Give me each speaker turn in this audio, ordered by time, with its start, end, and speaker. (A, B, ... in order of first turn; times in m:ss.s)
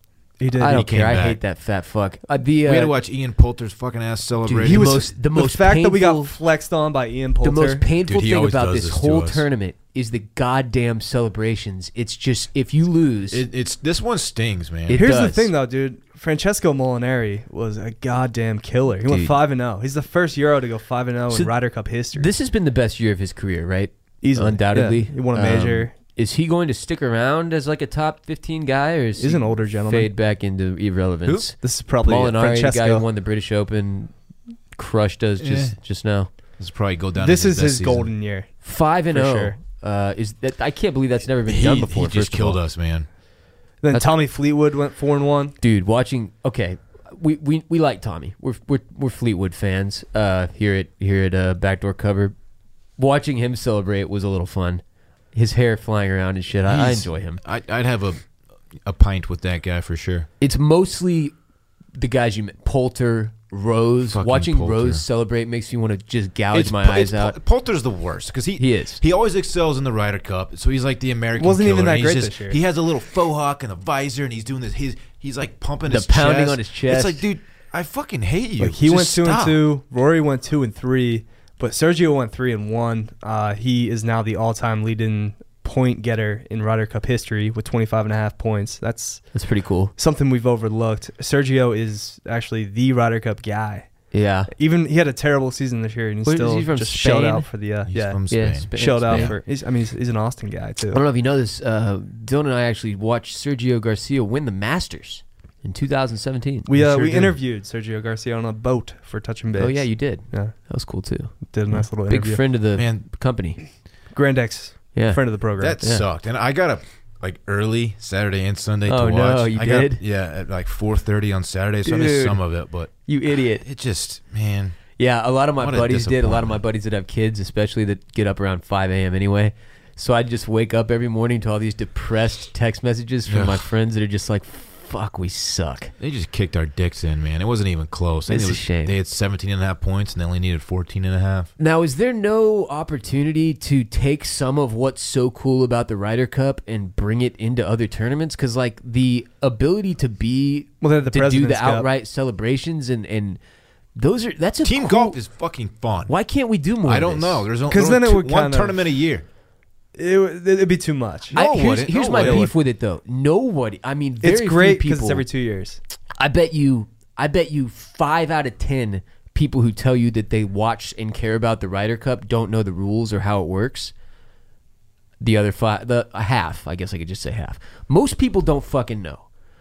0:00.4-0:00.8 A
0:00.5-0:02.9 B
0:00.6-0:01.4 C
0:02.6-0:05.0 C
0:04.4-0:06.3 B
0:04.6-0:07.8 A
0:07.4-0:13.4 B
0:08.0-0:09.5 C
0:13.3-0:15.1 C
0:14.9-0:15.5 B
0:14.9-0:22.3 A
0:19.0-0:19.4 B
0:22.1-0:34.1 B
0:24.2-0:25.9 A
0:29.2-0:30.1 A
0:31.6-0:33.0 A
0:34.7-0:36.3 B
0:35.4-0:35.8 C
0:36.6-0:38.1 C
0:37.2-0:39.6 A
0:38.6-0:42.6 B
0:41.4-0:43.1 C
0:43.8-0:45.6 A
0:43.9-0:44.2 B
0:45.6-0:52.3 B
0:53.0-0:54.8 B
0:55.3-0:57.4 B
0:56.6-0:58.2 C
0:58.8-1:00.3 C
1:00.4-1:01.3 B
1:01.9-1:07.4 B
1:04.1-1:05.0 C
1:06.5-1:19.6 C
1:08.6-1:09.0 B
1:11.4-1:12.6 A
1:15.9-1:17.2 B
1:18.6-1:29.3 A
1:29.3-1:29.9 B
1:30.0-1:34.0 A
1:34.1-1:34.5 B
1:34.5-1:41.0 A
1:36.2-1:37.5 B
1:37.8-1:39.4 C
1:38.3-1:39.3 B
1:40.9-1:46.7 B
1:46.7-1:50.5 A
1:46.7-1:47.4 C
1:49.5-1:53.6 B
1:51.4-1:52.4 A
1:52.8-1:53.0 C
1:54.1-1:55.8 A
1:54.9-1:56.0 B
1:55.6-2:02.9 C
1:58.8-2:00.0 B
2:01.8-2:02.4 B
2:03.1-2:03.6 B
2:03.6-2:04.8 C
2:05.0-2:15.9 B
2:05.6-2:06.6 C
2:13.2-2:13.7 C
2:16.0-2:21.5 C
2:18.3-2:19.0 B
2:21.6-2:33.4 B
2:30.8-2:31.9 A
2:34.0-2:35.2 B
2:34.6-2:36.1 C
2:36.1-2:37.5 B
2:36.8-2:39.2 C
2:37.7-2:38.8 A
2:39.9-2:41.4 A
2:41.3-2:42.5 C
2:41.3-2:45.2 B
2:42.1-2:42.5 A
2:44.2-2:45.8 A
2:46.2-2:53.9 B
2:55.2-2:59.2 B